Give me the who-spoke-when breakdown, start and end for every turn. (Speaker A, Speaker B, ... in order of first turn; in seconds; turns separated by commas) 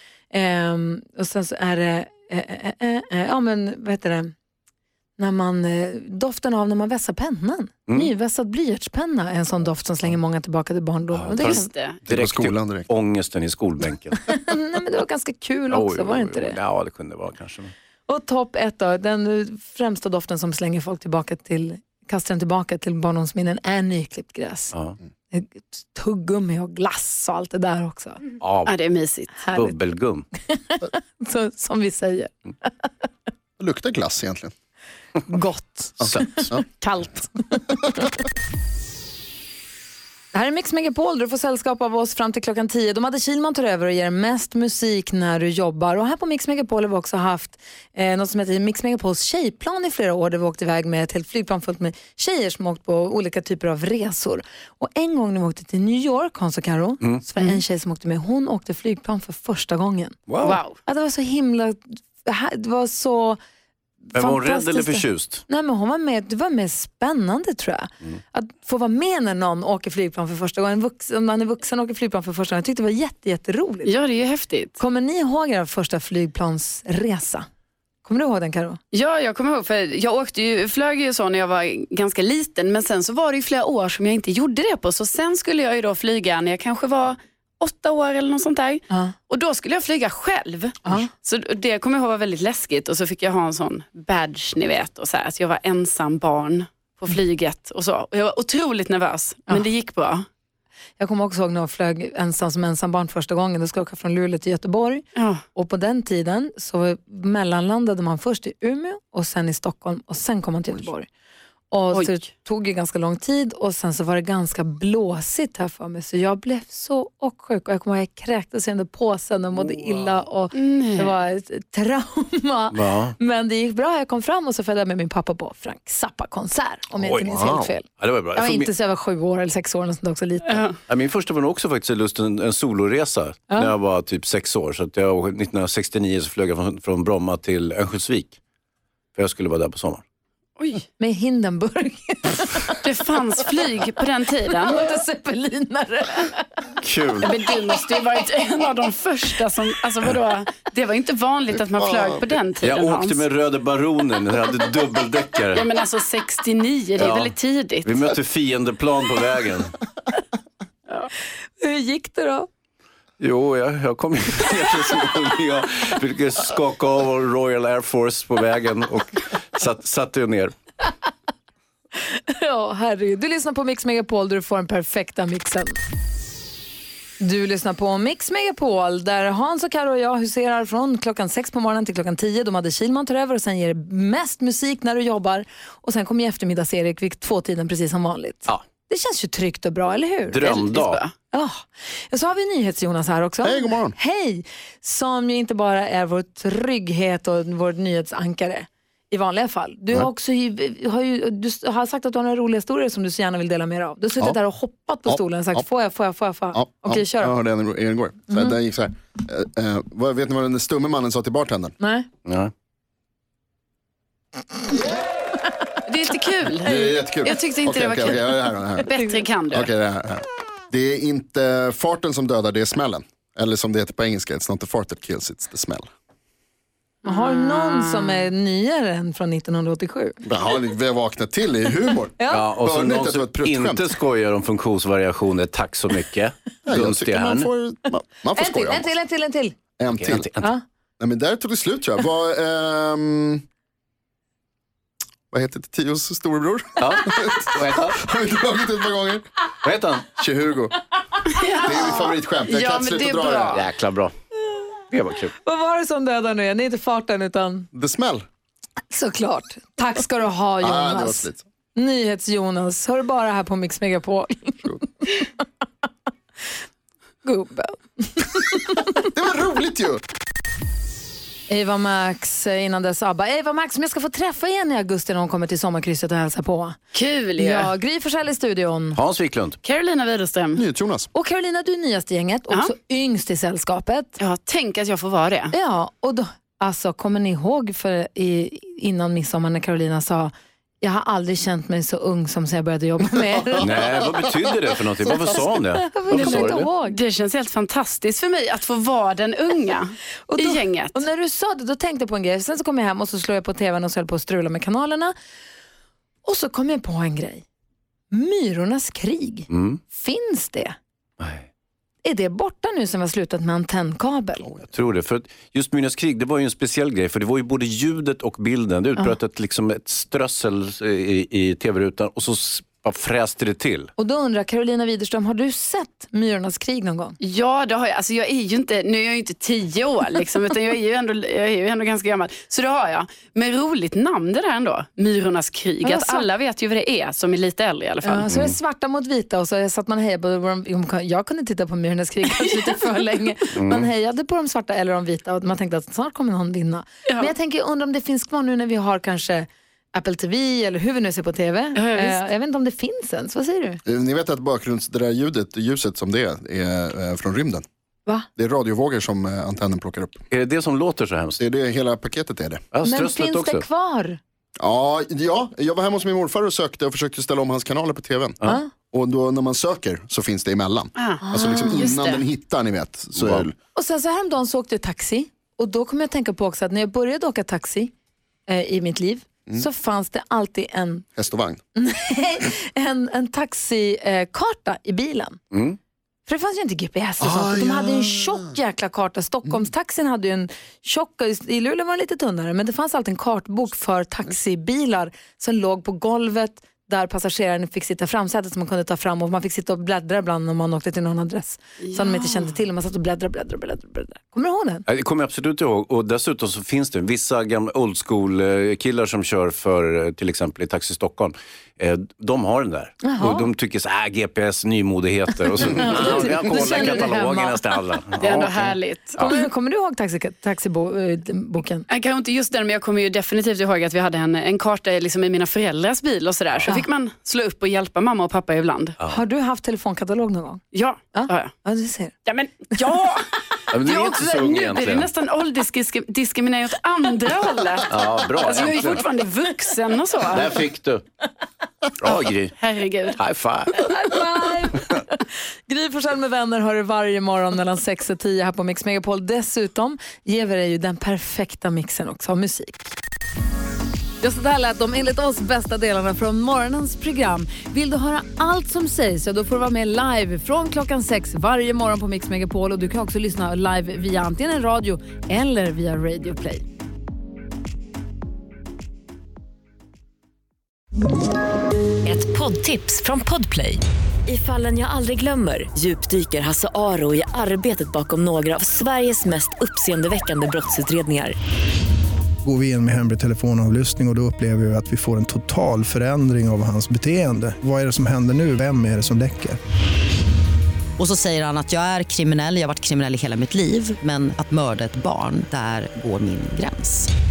Speaker A: 0.3-4.3, Speaker A: 5.2-11.7, Speaker B: 11.1-14.2, Speaker C: 11.5-12.0, Speaker D: 12.1-12.9, Speaker A: 14.3-16.6, Speaker B: 15.7-17.7, Speaker A: 18.1-24.7, Speaker A: 25.3-28.2, Speaker B: 28.4-28.8, Speaker C: 28.7-29.5, Speaker A: 29.4-29.8, Speaker B: 29.5-30.3, Speaker A: 30.4-32.9, Speaker D: 33.6-34.5, Speaker A: 35.3-38.0, Speaker D: 36.0-36.6, Speaker A: 40.3-63.4, Speaker B: 60.3-60.6, Speaker C: 60.5-60.8, Speaker A: 64.1-73.9, Speaker B: 64.2-65.4, Speaker C: 73.8-74.8, Speaker A: 74.8-77.5, Speaker A: 78.0-78.8, Speaker C: 78.9-100.3, Speaker A: 88.9-89.2, Speaker A: 90.8-91.1, Speaker A: 101.0-105.0, Speaker C: 105.2-105.4, Speaker A: 105.5-111.1, Speaker A: 111.7-130.7, Speaker C: 120.5-121.1, Speaker B: 122.7-123.2, Speaker B: 126.9-128.7, Speaker C: 130.5-130.8, Speaker B: 130.8-138.4, Speaker B: 139.2-140.0, Speaker C: 140.6-140.8, Speaker A: 141.0-142.8, Speaker C: 142.8-144.8, Speaker A: 144.5-146.6, Speaker B: 146.8-147.3, Speaker C: 147.2-153.2, Speaker D: 151.8-152.3, Speaker B: 152.6-155.7, Speaker C: 155.6-157.9, Speaker B: 157.0-159.8, Speaker A: 161.6-162.5, Speaker B: 163.2-170.5, Speaker A: 172.1-175.8, Speaker A: 177.2-190.5, Speaker B: 190.3-191.0, Speaker C: 190.4-191.1, Speaker A: 191.3-207.4, Speaker D: 193.4-194.0, Speaker D: 205.1-205.6, Speaker D: 206.5-211.8, Speaker A: 208.3-208.6, Speaker A: 211.8-212.1, Speaker B: 212.3-212.5, Speaker C: 215.9-218.1, Speaker D: 216.6-218.9, Speaker C: 218.9-219.7, Speaker A: 218.9-219.2, Speaker D: 219.5-225.9, Speaker C: 227.0-228.3, Speaker A: 227.0-230.2, Speaker D: 230.2-233.9, Speaker A: 232.2-232.5, Speaker B: 232.3-237.5, Speaker D: 236.7-238.9, Speaker A: 238.3-239.6, Speaker D: 239.8-240.3, Speaker B: 239.9-240.5, Speaker D: 241.0-243.4, Speaker D: 245.3-249.3, Speaker B: 246.8-248.0, Speaker B: 249.6-250.2, Speaker D: 250.2-250.8, Speaker C: 251.3-253.6, Speaker D: 251.6-253.6, Speaker B: 253.5-254.1, Speaker B: 254.9-255.3, Speaker A: 255.4-257.7, Speaker D: 257.7-258.3, Speaker A: 258.9-265.3, Speaker D: 260.6-261.4, Speaker A: 267.2-268.9, Speaker D: 269.0-270.0, Speaker A: 271.5-276.8, Speaker C: 276.9-277.7, Speaker A: 277.4-279.0, Speaker B: 278.9-279.6, Speaker C: 279.6-280.6, Speaker D: 280.6-281.1, Speaker A: 281.1-284.2, Speaker C: 284.2-285.5, Speaker A: 285.5-293.9, Speaker B: 293.6-296.7, Speaker A: 295.5-297.0, Speaker C: 296.2-301.0, Speaker A: 300.3-305.1, Speaker A: 306.2-307.4, Speaker A: 308.1-310.8, Speaker B: 309.5-309.8, Speaker B: 311.2-311.5, Speaker A: 312.0-314.6, Speaker B: 314.7-323.9, Speaker A: 324.0-327.2, Speaker C: 327.2-338.2, Speaker A: 335.8-336.3, Speaker A: 338.0-353.8, Speaker B: 338.3-338.6, Speaker B: 343.5-343.9, Speaker C: 351.8-352.2, Speaker D: 353.9-357.6, Speaker D: 358.4-360.2, Speaker B: 360.3-361.4, Speaker D: 361.4-362.6, Speaker B: 362.7-363.6, Speaker A: 362.8-364.2, Speaker D: 364.6-368.4, Speaker A: 368.4-368.7, Speaker D: 368.9-373.6, Speaker C: 371.0-371.2, Speaker A: 371.2-371.9, Speaker C: 371.8-372.2, Speaker B: 373.1-373.5, Speaker A: 373.8-377.9, Speaker A: 378.5-381.1, Speaker D: 381.2-381.6, Speaker A: 381.8-385.4, Speaker A: 386.3-404.9, Speaker D: 387.2-388.5, Speaker C: 401.8-402.4, Speaker B: 404.9-419.3, Speaker A: 413.0-413.5, Speaker A: 415.6-418.0, Speaker C: 418.2-419.2, Speaker A: 419.2-421.9, Speaker C: 421.9-429.0, Speaker A: 429.1-430.6, Speaker C: 430.7-431.5, Speaker A: 431.1-432.2, Speaker C: 432.3-433.3, Speaker B: 433.7-435.1, Speaker C: 433.9-437.9, Speaker B: 437.9-439.1, Speaker C: 438.4-440.5, Speaker B: 440.3-441.0, Speaker B: 442.0-442.6, Speaker C: 442.6-443.2, Speaker B: 443.1-443.9, Speaker A: 443.8-452.9, Speaker A: 454.2-466.6, Speaker E: 472.1-481.4, Speaker F: 482.4-489.6, Speaker G: 491.0-497.1